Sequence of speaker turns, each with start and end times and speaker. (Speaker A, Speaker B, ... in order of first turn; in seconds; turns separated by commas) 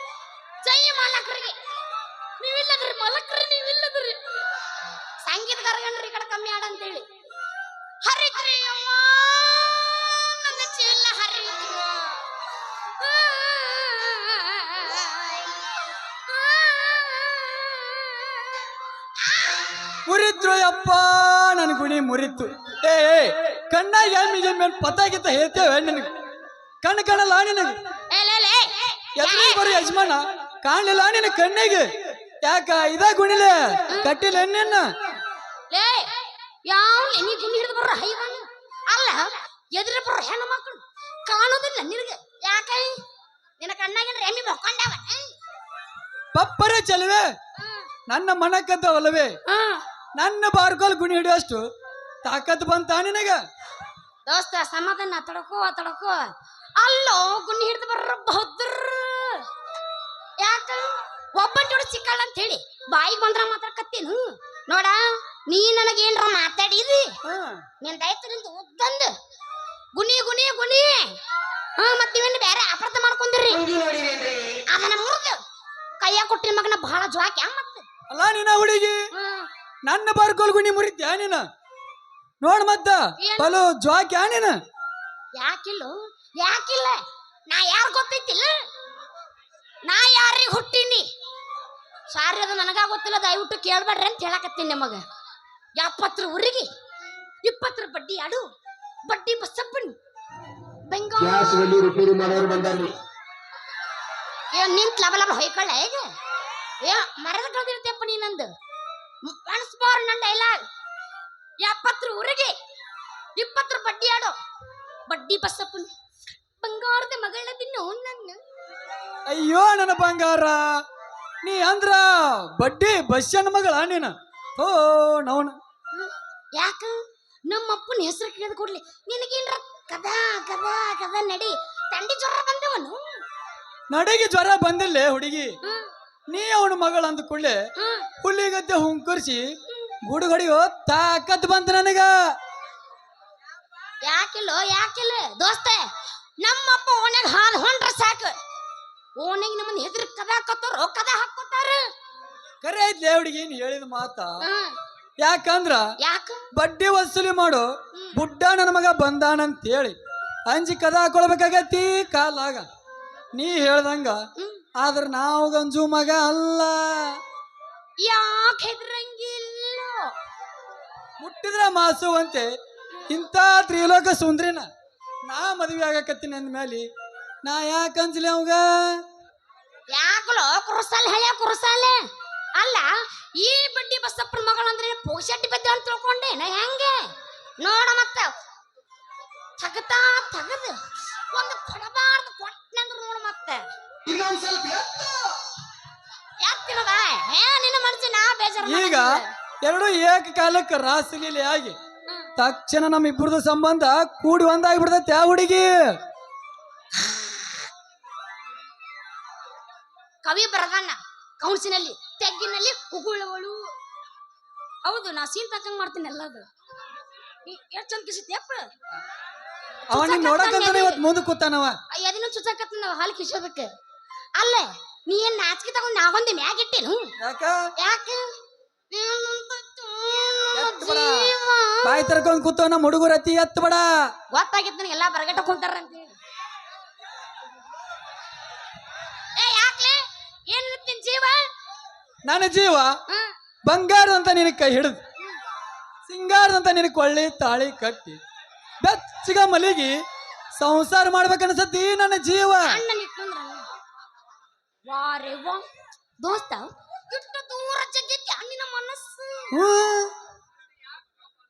Speaker A: 0.6-1.6, Speaker A: 2.4-4.2, Speaker A: 5.2-7.0, Speaker A: 8.0-12.2, Speaker A: 13.0-15.5, Speaker A: 16.3-18.6, Speaker A: 19.2-19.7, Speaker B: 20.1-26.1, Speaker B: 26.8-27.8, Speaker A: 28.1-29.8, Speaker B: 29.2-34.9, Speaker A: 35.7-36.1, Speaker A: 36.6-43.0, Speaker A: 43.6-45.3, Speaker B: 46.4-47.3, Speaker B: 48.1-49.4, Speaker A: 49.5-49.8, Speaker B: 50.2-51.6, Speaker B: 52.2-53.4, Speaker A: 54.3-59.5, Speaker A: 60.4-67.2, Speaker B: 67.2-67.6, Speaker A: 67.8-69.1, Speaker A: 69.9-71.2, Speaker A: 71.8-73.8, Speaker A: 74.7-75.4, Speaker A: 76.0-77.8, Speaker B: 78.1-79.1, Speaker A: 79.1-79.5, Speaker B: 79.9-81.4, Speaker B: 82.4-84.6, Speaker A: 83.2-83.6, Speaker A: 85.3-88.5, Speaker A: 89.8-91.1, Speaker A: 92.1-95.0, Speaker A: 95.8-96.7, Speaker A: 97.4-98.4, Speaker A: 99.1-100.0, Speaker A: 100.9-101.8, Speaker C: 101.2-103.0, Speaker A: 104.5-106.1, Speaker A: 106.8-108.5, Speaker A: 109.2-110.6, Speaker A: 111.6-112.5, Speaker A: 113.4-114.4, Speaker A: 115.1-115.9, Speaker A: 116.6-118.4, Speaker B: 119.3-120.7, Speaker B: 121.4-125.6, Speaker A: 125.9-133.2, Speaker B: 133.9-135.6, Speaker A: 135.6-135.9, Speaker B: 136.3-137.6, Speaker A: 137.8-138.1, Speaker B: 138.2-139.5, Speaker B: 140.1-142.3, Speaker A: 144.0-145.9, Speaker A: 146.4-148.4, Speaker A: 149.2-151.8, Speaker B: 152.6-154.4, Speaker A: 154.4-154.8, Speaker B: 155.2-155.9, Speaker A: 156.0-156.5, Speaker B: 156.6-160.0, Speaker B: 160.5-162.7, Speaker B: 163.3-164.2, Speaker A: 164.4-164.6, Speaker B: 164.8-167.2, Speaker A: 168.0-170.1, Speaker B: 171.2-172.5, Speaker B: 173.1-174.7, Speaker B: 175.3-176.9, Speaker B: 177.4-179.0, Speaker A: 179.9-182.0, Speaker A: 182.6-188.3, Speaker A: 189.6-190.8, Speaker A: 191.3-193.7, Speaker C: 194.1-195.1, Speaker A: 196.4-199.3, Speaker B: 198.6-201.8, Speaker B: 202.4-205.7, Speaker A: 210.2-213.7, Speaker A: 214.8-216.5, Speaker A: 217.5-218.7, Speaker B: 219.9-221.8, Speaker A: 219.9-221.0, Speaker A: 221.9-223.7, Speaker A: 224.4-227.1, Speaker B: 227.2-227.6, Speaker A: 227.8-228.3, Speaker A: 228.9-232.1, Speaker B: 230.5-231.3, Speaker B: 231.8-233.9, Speaker A: 234.3-236.1, Speaker A: 239.4-241.5, Speaker B: 242.3-243.0, Speaker B: 243.7-245.0, Speaker B: 246.1-248.2, Speaker B: 248.8-250.0, Speaker B: 250.6-252.8, Speaker A: 252.6-253.7, Speaker A: 254.9-255.7, Speaker A: 256.2-259.5, Speaker B: 259.5-260.1